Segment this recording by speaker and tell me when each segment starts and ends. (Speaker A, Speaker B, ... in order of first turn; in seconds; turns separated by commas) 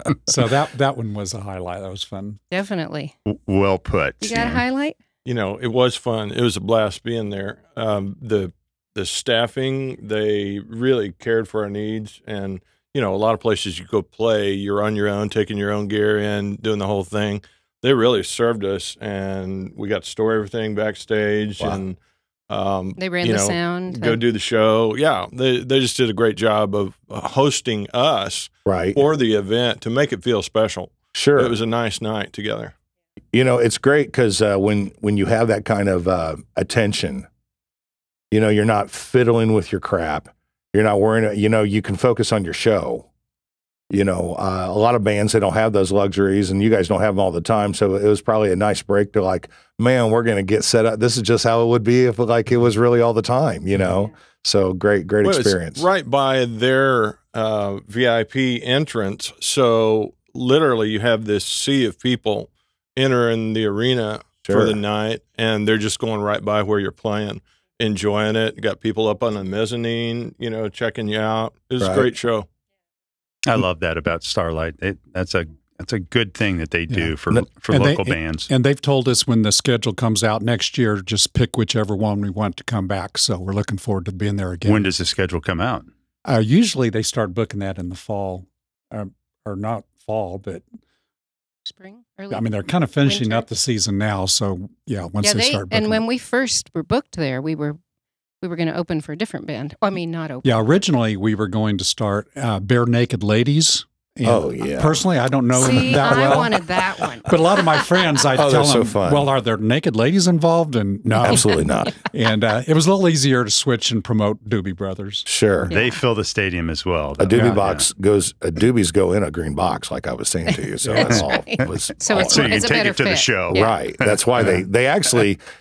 Speaker A: 0.2-2.4, Speaker B: 2.5-3.1, Speaker C: 3.2-4.6, Speaker B: 4.2-5.0, Speaker D: 5.2-22.0, Speaker D: 22.5-32.7, Speaker B: 23.0-24.2, Speaker E: 28.6-29.0, Speaker E: 31.1-31.5, Speaker E: 33.3-37.3, Speaker E: 38.3-43.0, Speaker E: 43.9-55.8, Speaker D: 55.2-72.5, Speaker E: 64.5-64.8, Speaker E: 71.8-72.1, Speaker C: 73.5-78.5, Speaker A: 76.9-84.9, Speaker C: 84.7-85.9, Speaker A: 86.2-90.6, Speaker B: 91.6-92.5, Speaker A: 92.3-96.0, Speaker B: 93.0-93.4, Speaker B: 95.2-97.8, Speaker B: 98.4-100.7, Speaker A: 100.4-106.6, Speaker E: 104.2-105.0, Speaker B: 105.5-107.7, Speaker A: 107.2-115.3, Speaker E: 108.3-109.3, Speaker E: 111.2-111.9, Speaker E: 115.2-115.7, Speaker B: 115.7-116.0, Speaker C: 115.7-117.8, Speaker E: 117.2-122.6, Speaker B: 121.0-123.7, Speaker C: 121.0-124.2, Speaker E: 123.5-125.4